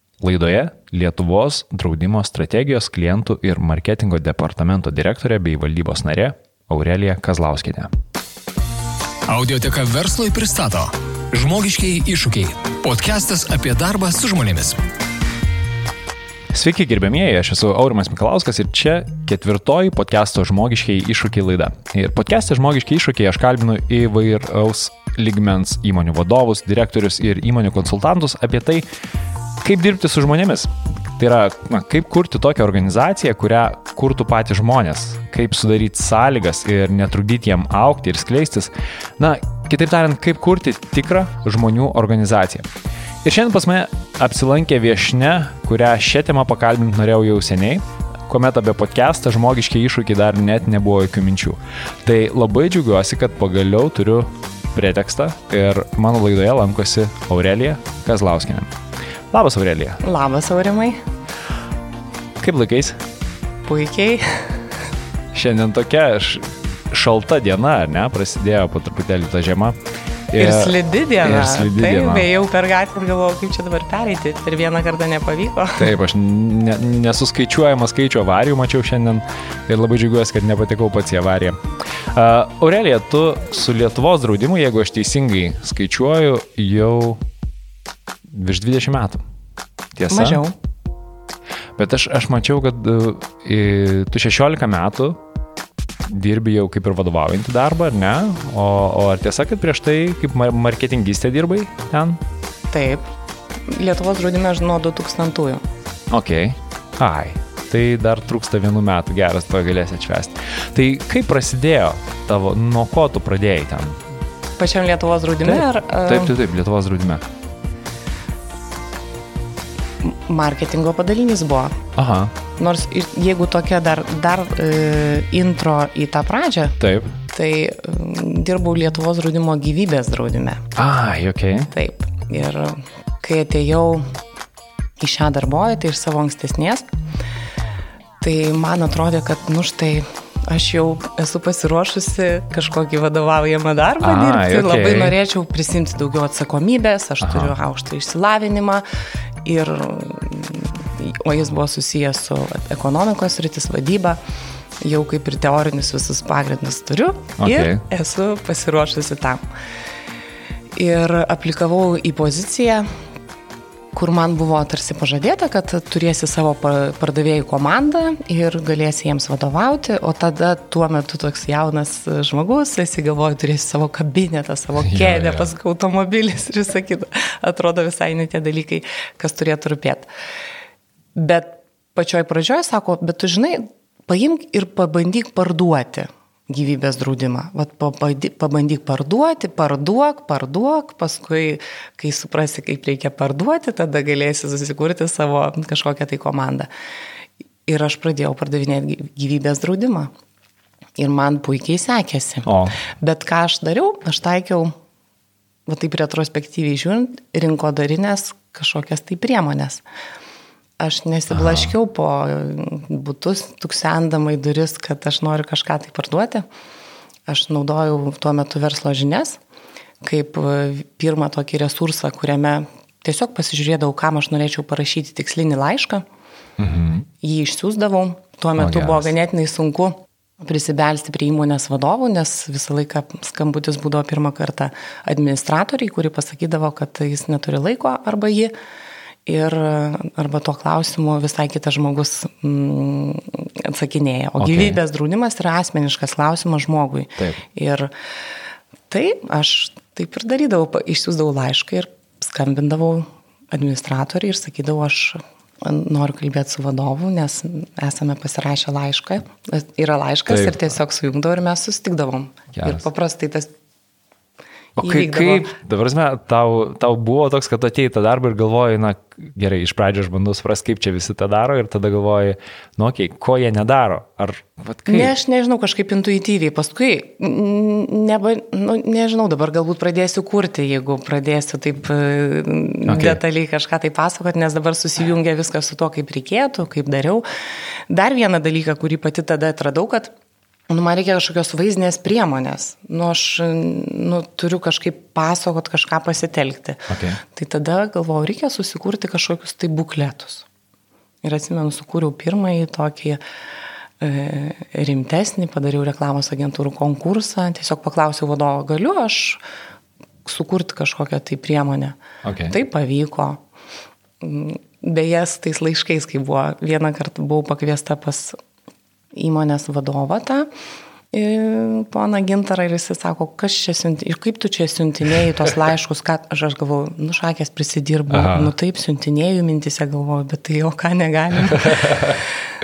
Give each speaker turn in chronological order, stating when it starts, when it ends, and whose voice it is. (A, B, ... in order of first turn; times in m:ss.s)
0:00.2-0:07.9 A
0:09.3-0:14.8 B
0:16.5-0:28.8 A
0:29.6-0:42.7 A
0:43.2-0:58.7 A
0:59.3-1:00.0 A
1:00.0-1:01.0 C
1:02.4-1:03.0 A
1:03.6-1:04.8 C
1:05.3-1:09.8 A
1:10.3-1:12.3 A
1:10.4-1:15.9 C
1:15.8-1:21.6 A
1:22.1-1:27.2 A
1:28.3-1:29.2 A
1:30.0-1:30.4 A
1:30.1-1:30.6 C
1:31.8-1:35.2 A
1:36.1-1:42.2 A
1:42.7-1:43.1 C
1:43.6-1:45.6 C
1:46.1-1:54.0 A
1:54.6-1:56.3 C
1:55.4-1:57.2 A
2:00.0-2:01.8 C
2:02.0-2:02.3 A
2:02.6-2:06.8 C
2:06.8-2:07.2 A
2:07.3-2:10.7 C
2:10.8-2:11.7 A
2:11.7-2:14.0 C
2:15.0-2:16.9 C
2:18.2-2:28.8 C
2:24.0-2:25.2 A
2:27.2-2:27.5 A
2:29.4-2:34.2 C
2:34.8-2:39.4 C
2:37.4-2:37.8 A
2:40.8-2:42.9 C
2:43.9-3:00.1 C
2:54.8-2:55.5 A
3:01.2-3:16.7 C
3:17.7-3:20.1 C
3:21.0-3:24.7 C
3:22.4-3:22.8 A
3:25.7-3:29.8 C
3:30.8-3:36.4 C
3:31.3-3:31.7 A
3:37.3-3:39.4 C
3:40.0-3:46.0 C
3:46.6-3:47.1 A
3:47.2-3:58.5 C
3:48.6-3:49.1 A
3:59.2-4:07.9 C
4:04.4-4:04.8 A
4:07.2-4:07.4 A
4:08.9-4:23.5 C
4:20.3-4:20.6 A
4:22.5-4:22.9 A
4:24.8-4:35.1 A
4:24.8-4:25.5 C
4:34.9-4:47.2 C
4:42.9-4:43.2 A
4:47.9-4:50.1 C
4:50.7-5:00.5 C
4:56.9-4:57.2 A
5:01.2-5:03.2 C
5:04.0-5:09.4 C
5:10.2-5:13.4 C
5:12.2-5:12.6 A
5:14.2-5:18.4 C
5:19.1-5:20.5 C
5:21.1-5:32.3 C
5:28.1-5:28.5 A
5:31.6-5:32.2 A